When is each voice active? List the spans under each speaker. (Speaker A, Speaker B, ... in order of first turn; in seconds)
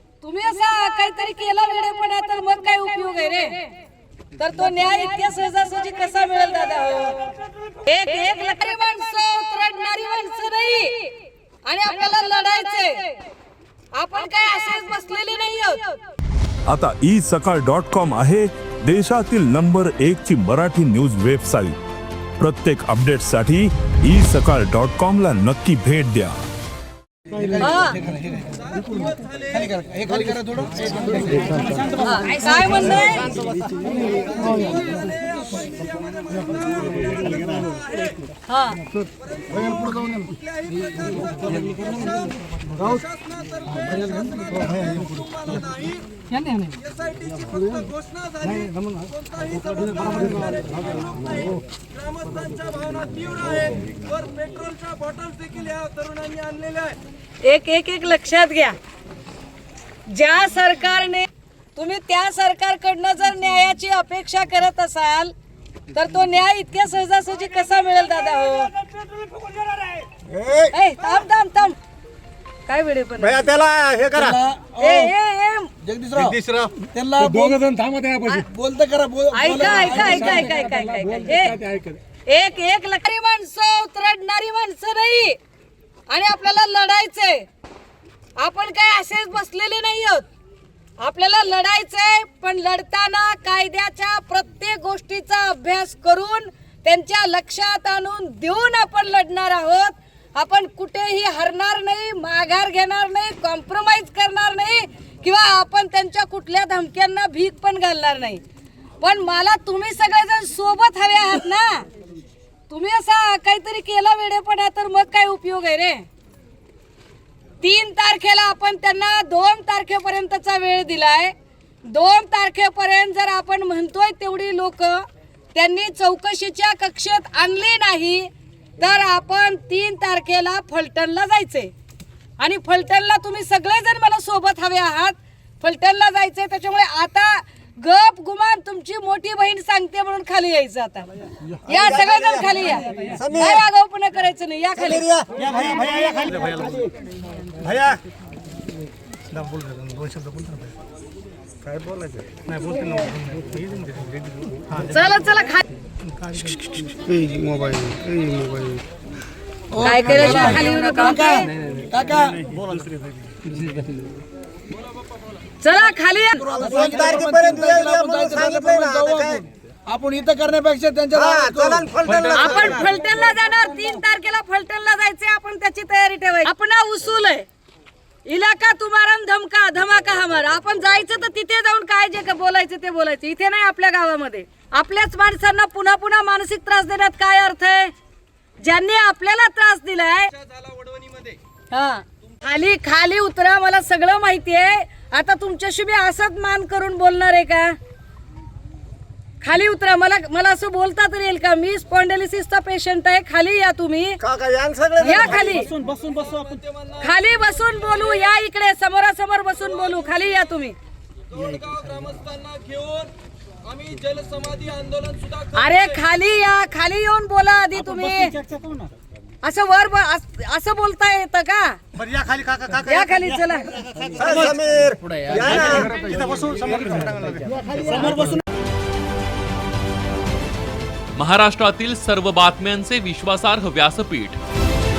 Speaker A: 0.2-3.7, 4.4-11.1, 11.7-13.2, 13.9-16.0, 27.6-28.0, 32.0-33.4, 38.5-38.8, 46.3-46.8, 57.4-58.8, 60.1-65.3, 65.9-68.7, 70.7-71.8, 72.7-73.5, 74.8-75.7, 79.3-81.6, 82.3-85.4, 86.1-87.5, 88.4-90.3, 91.0-108.4, 109.0-111.8, 112.7-116.0, 117.6-121.3, 121.9-125.0, 125.5-128.3, 128.8-131.7, 132.4-141.1, 141.7-145.1, 154.8-155.6, 159.8-161.5, 165.6-166.5, 172.3-177.5, 178.3-187.9, 188.6-190.3, 191.7-197.8, 199.4-204.2, 205.0-205.8, 207.0-210.8, 215.5-218.3, 219.4-221.8, 222.8-223.7
Speaker B: 16.7-21.8, 22.4-26.4
Speaker C: 27.3-32.3, 39.7-40.1, 41.3-41.7, 74.1-75.1, 75.8-81.8, 159.7-162.5, 166.3-174.0
Speaker D: 33.1-34.1, 70.2-70.7, 73.2-74.4, 76.2-76.7, 141.7-142.5, 143.1-143.6, 144.8-146.8, 147.6-148.0, 151.6-152.5, 156.5-158.8, 166.6-169.4, 171.2-172.8, 204.2-205.5, 222.0-223.0, 224.0-227.4
Speaker E: 35.7-38.1, 39.5-39.9, 43.1-46.0, 46.8-51.5, 52.1-57.0, 190.6-191.4, 205.9-206.8, 211.4-213.1, 213.7-215.4
Speaker F: 231.2-234.4